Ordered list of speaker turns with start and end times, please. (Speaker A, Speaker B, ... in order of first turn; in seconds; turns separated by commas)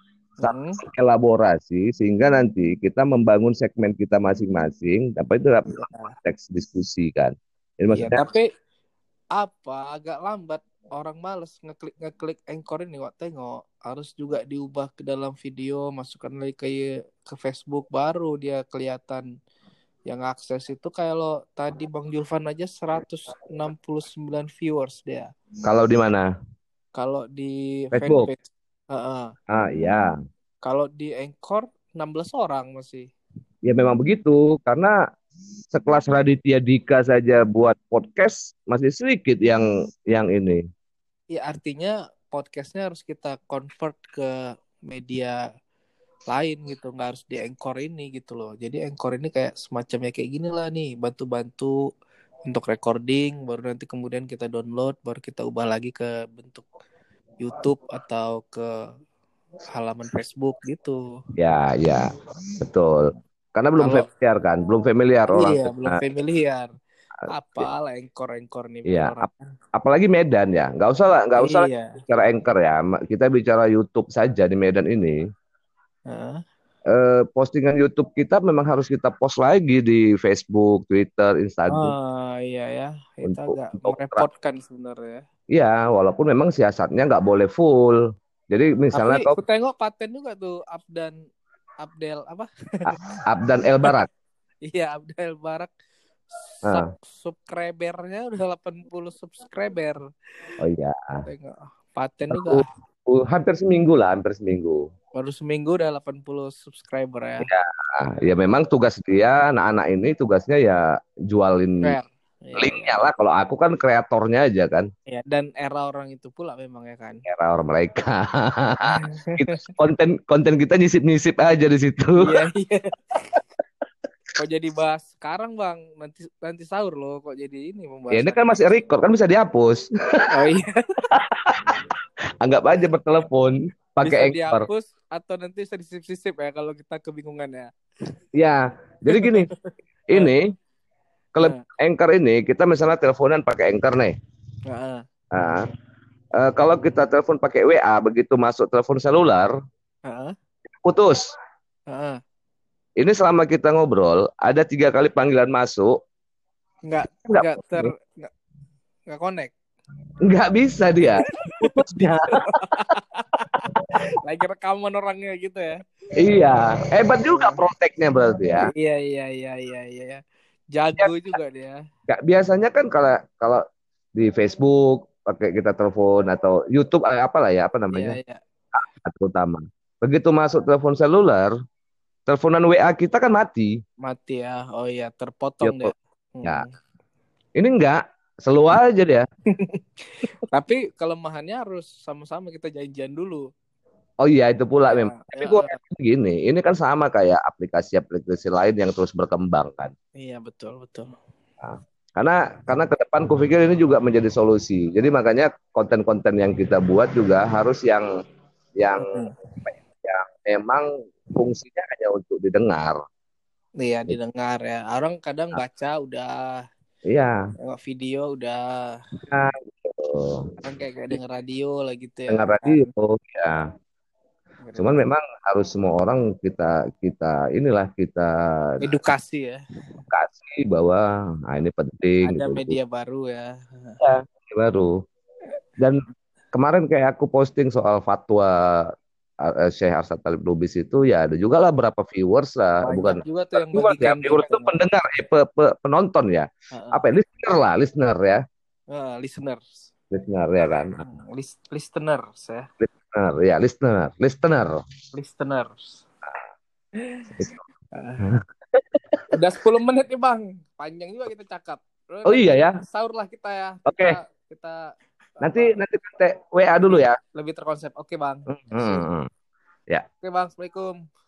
Speaker A: 0.4-0.8, Speaker B: 0.4-8.2, Speaker A: 5.7-6.1, Speaker A: 7.9-8.5, Speaker A: 9.4-19.2, Speaker A: 20.1-25.3, Speaker B: 25.6-26.3, Speaker A: 26.9-29.3, Speaker B: 27.9-28.3, Speaker B: 29.5-30.1, Speaker A: 30.6-33.1, Speaker B: 33.6-34.9, Speaker B: 35.7-40.6, Speaker A: 41.3-44.3, Speaker A: 44.9-45.4, Speaker A: 46.3-51.7, Speaker A: 52.5-56.7, Speaker A: 57.4-58.7, Speaker A: 59.7-61.0, Speaker B: 61.4-62.1, Speaker B: 62.6-66.0, Speaker A: 63.8-64.0, Speaker A: 65.3-66.7, Speaker A: 67.3-69.4, Speaker B: 68.9-69.2, Speaker B: 69.7-75.2, Speaker A: 71.4-72.0, Speaker A: 76.1-76.4, Speaker B: 76.9-81.9, Speaker A: 81.7-85.2, Speaker B: 83.2-84.2, Speaker B: 85.5-88.0, Speaker B: 88.5-89.3, Speaker A: 88.9-91.2, Speaker A: 91.8-92.8, Speaker B: 92.9-94.1, Speaker A: 94.7-95.7, Speaker A: 96.3-100.0, Speaker B: 100.6-101.2, Speaker A: 101.2-102.6, Speaker B: 102.3-104.9, Speaker A: 105.2-107.5, Speaker B: 107.4-112.0, Speaker A: 111.8-113.0, Speaker B: 112.6-114.9, Speaker A: 115.1-117.2, Speaker B: 117.3-122.3, Speaker A: 118.9-119.6, Speaker A: 122.2-123.4, Speaker A: 124.4-128.6, Speaker B: 128.1-130.3, Speaker A: 130.3-130.7, Speaker B: 131.1-131.7, Speaker B: 132.4-134.7, Speaker A: 134.0-137.7, Speaker B: 138.3-139.5, Speaker A: 139.1-140.3, Speaker B: 140.1-140.5, Speaker B: 141.3-144.1, Speaker A: 144.7-145.0, Speaker B: 145.3-145.6, Speaker B: 146.4-149.5, Speaker A: 150.1-150.3, Speaker B: 150.8-151.2, Speaker A: 151.9-152.2, Speaker B: 153.0-155.9, Speaker A: 156.8-158.3, Speaker B: 157.3-157.9, Speaker A: 159.1-159.5, Speaker B: 160.2-162.3, Speaker A: 161.3-165.8, Speaker B: 166.2-168.7, Speaker A: 167.2-167.6, Speaker A: 168.7-170.2, Speaker A: 170.7-171.8, Speaker B: 172.1-173.6, Speaker B: 174.2-178.2, Speaker A: 177.9-178.4, Speaker B: 178.7-181.5, Speaker B: 182.3-183.8, Speaker A: 184.0-186.7, Speaker B: 185.6-185.9, Speaker B: 187.6-189.2, Speaker A: 189.6-193.4, Speaker B: 194.2-199.9, Speaker A: 194.9-195.8, Speaker A: 200.2-201.1, Speaker B: 201.6-208.0, Speaker B: 208.8-209.0, Speaker A: 209.0-209.3, Speaker B: 209.6-213.0, Speaker A: 213.8-216.3, Speaker B: 217.1-217.4, Speaker A: 217.6-219.0, Speaker B: 219.2-220.4, Speaker A: 220.6-222.9, Speaker B: 222.3-223.6, Speaker A: 224.6-225.0, Speaker B: 224.8-228.8, Speaker A: 228.8-229.6, Speaker B: 230.1-232.8, Speaker A: 232.2-234.0, Speaker B: 234.0-234.9, Speaker B: 236.5-238.9, Speaker B: 239.4-248.4, Speaker A: 242.8-244.8, Speaker A: 246.7-247.0, Speaker A: 248.9-249.8, Speaker B: 250.1-251.0, Speaker A: 251.0-252.7, Speaker B: 252.8-254.8, Speaker A: 255.1-256.0, Speaker A: 257.0-257.3, Speaker B: 257.4-257.6, Speaker A: 257.9-258.2, Speaker A: 259.3-264.8, Speaker B: 262.2-262.8, Speaker B: 263.9-264.2, Speaker A: 265.4-265.8, Speaker B: 265.4-267.1, Speaker A: 267.3-269.0, Speaker B: 268.5-269.3, Speaker A: 270.2-270.9